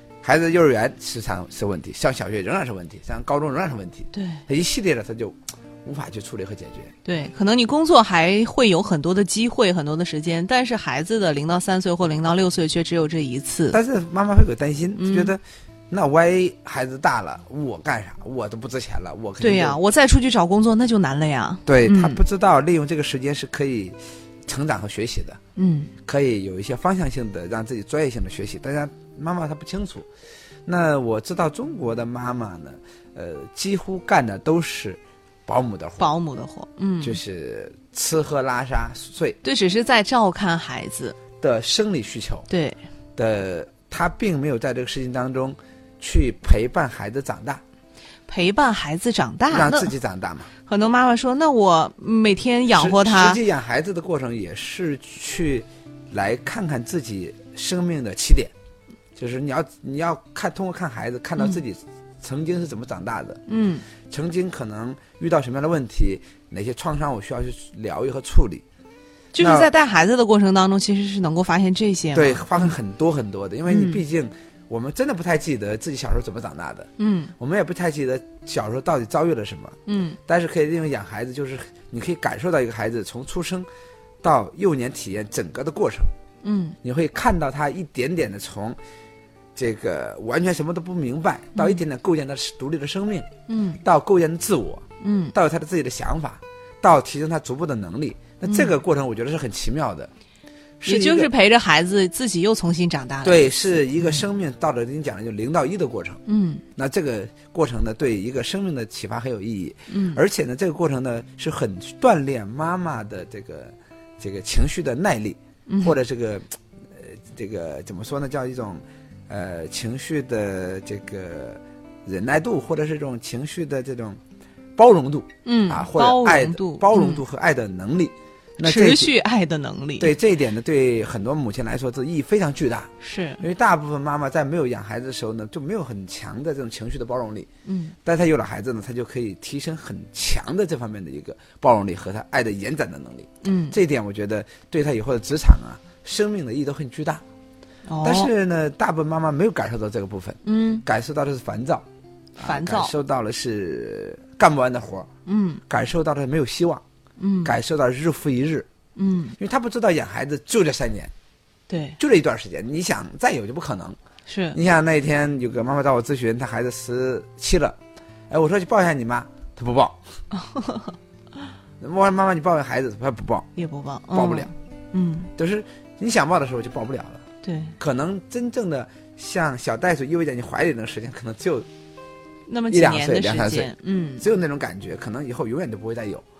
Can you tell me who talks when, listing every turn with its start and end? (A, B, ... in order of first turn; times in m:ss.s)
0:00.2-0:06.9 A
0:04.1-0:04.4 B
0:07.0-0:13.8 B
0:13.7-0:19.8 A
0:15.0-0:15.3 B
0:19.4-0:22.2 B
0:21.6-0:25.4 A
0:25.6-0:25.9 B
0:26.0-0:30.1 A
0:30.6-0:36.0 A
0:36.0-0:37.2 B
0:37.0-0:39.4 A
0:39.4-0:41.2 B
0:41.4-0:42.5 A
0:42.5-0:42.8 B
0:43.2-0:47.6 A
0:48.3-0:49.9 B
0:49.5-0:50.5 A
0:50.6-0:53.4 B
0:52.7-0:58.5 A
0:59.2-1:03.4 A
1:03.5-1:03.8 B
1:04.0-1:08.6 A
1:09.3-1:12.7 B
1:09.4-1:09.7 A
1:12.1-1:23.7 A
1:13.7-1:14.0 B
1:17.0-1:17.3 B
1:19.9-1:20.2 B
1:24.2-1:26.1 A
1:26.4-1:26.8 B
1:26.8-1:28.8 A
1:29.5-1:33.3 A
1:31.5-1:31.8 B
1:33.5-1:33.8 B
1:33.8-1:40.1 A
1:35.0-1:35.3 B
1:38.4-1:38.7 B
1:40.8-1:41.3 A
1:40.8-1:44.2 B
1:43.2-1:46.2 A
1:46.3-1:46.6 B
1:46.7-2:04.2 A
1:49.9-1:50.2 B
1:55.7-1:55.9 B
2:04.8-2:09.1 A
2:05.4-2:07.2 B
2:08.6-2:10.1 B
2:10.0-2:17.5 A
2:13.0-2:13.4 B
2:17.6-2:17.9 B
2:18.0-2:27.2 A
2:23.4-2:23.8 B
2:27.9-2:28.3 B
2:28.0-2:31.8 A
2:30.4-2:30.8 B
2:32.4-2:35.1 A
2:32.4-2:32.9 B
2:35.2-2:35.6 B
2:35.7-2:36.8 A
2:37.2-2:37.5 B
2:37.4-2:38.7 A
2:39.0-2:39.4 B
2:39.4-2:41.1 A
2:41.7-2:42.0 B
2:42.0-2:44.0 A
2:44.3-2:44.6 B
2:44.5-2:47.8 A
2:48.3-2:50.0 A
2:50.4-2:50.9 B
2:51.8-2:53.5 A
2:53.6-2:55.3 B
2:54.1-2:54.5 A
2:55.4-2:57.2 A
2:57.4-2:57.7 B
2:57.8-3:01.7 A
3:02.5-3:04.2 B
3:02.7-3:06.2 A